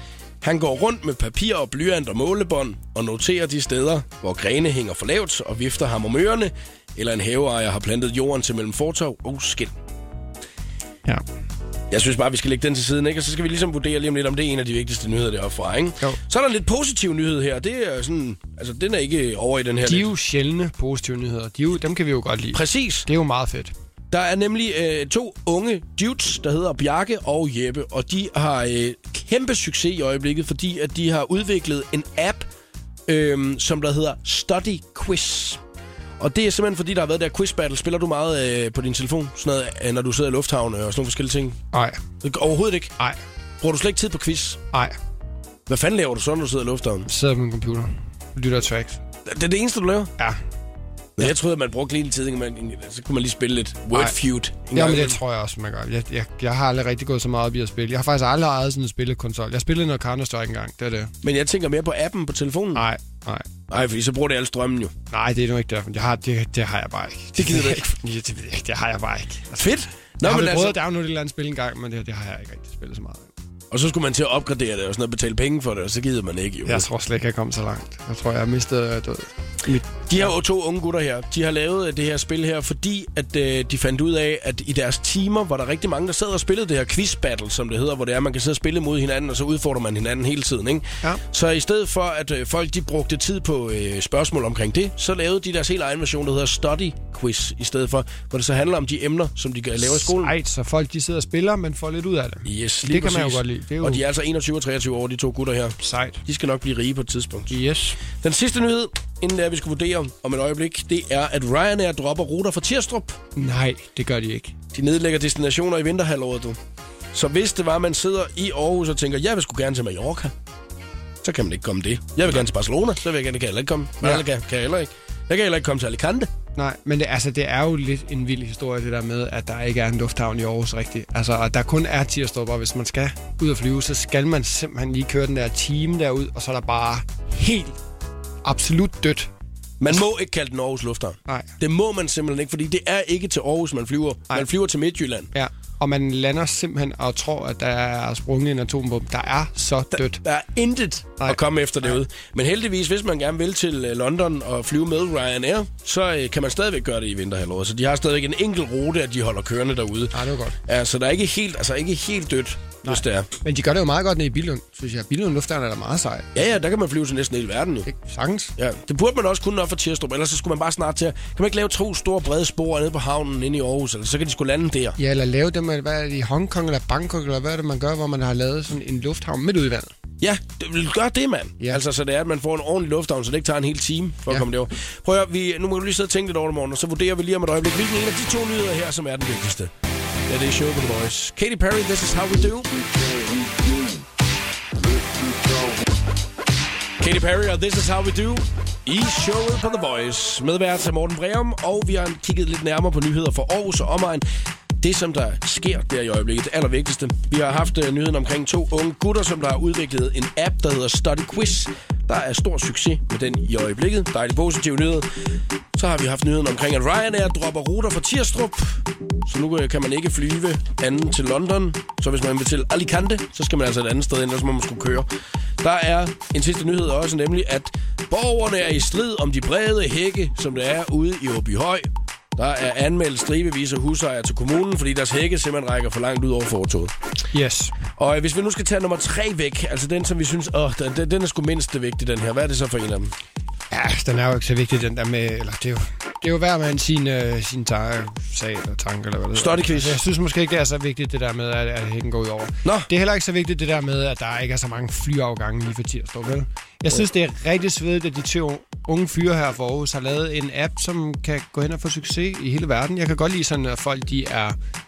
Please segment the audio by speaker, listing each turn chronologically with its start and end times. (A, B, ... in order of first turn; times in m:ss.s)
0:00.4-0:09.7 A
0:11.9-0:20.1 A
0:19.8-0:23.7 B
0:22.5-0:23.1 A
0:24.1-0:32.5 A
0:33.1-0:35.6 A
0:36.2-0:41.6 A
0:41.7-0:42.0 B
0:42.2-0:43.0 A
0:43.6-0:44.6 A
0:45.7-0:47.1 A
0:47.1-0:49.0 B
0:49.2-0:50.1 A
0:51.2-0:55.2 A
0:54.7-1:01.1 B
1:01.2-1:02.9 A
1:02.8-1:03.5 B
1:03.7-1:04.9 A
1:05.1-1:13.3 B
1:07.4-1:07.8 A
1:09.6-1:10.8 A
1:13.7-1:16.9 A
1:16.6-1:20.3 B
1:20.1-1:40.3 A
1:39.8-1:44.0 B
1:42.4-1:53.2 A
1:45.8-1:46.2 B
1:47.5-1:48.0 B
1:53.4-1:54.6 B
1:54.7-1:56.6 A
1:57.1-2:00.3 A
2:01.2-2:06.3 A
2:06.6-2:17.8 B
2:18.4-2:19.3 B
2:19.8-2:25.3 A
2:25.3-2:30.2 B
2:30.0-2:43.3 A
2:31.2-2:32.0 B
2:40.1-2:40.6 B
2:42.9-2:46.3 B
2:46.4-2:47.9 A
2:47.9-2:48.5 B
2:48.6-2:55.0 A
2:55.0-2:59.9 B
3:00.2-3:09.7 A
3:10.3-3:12.7 A
3:17.0-3:24.2 A
3:24.8-3:35.1 A
3:35.8-3:45.1 A
3:45.6-3:56.9 A
3:57.3-3:57.7 B
3:58.0-4:03.1 A
4:03.7-4:24.6 B
4:09.4-4:10.0 A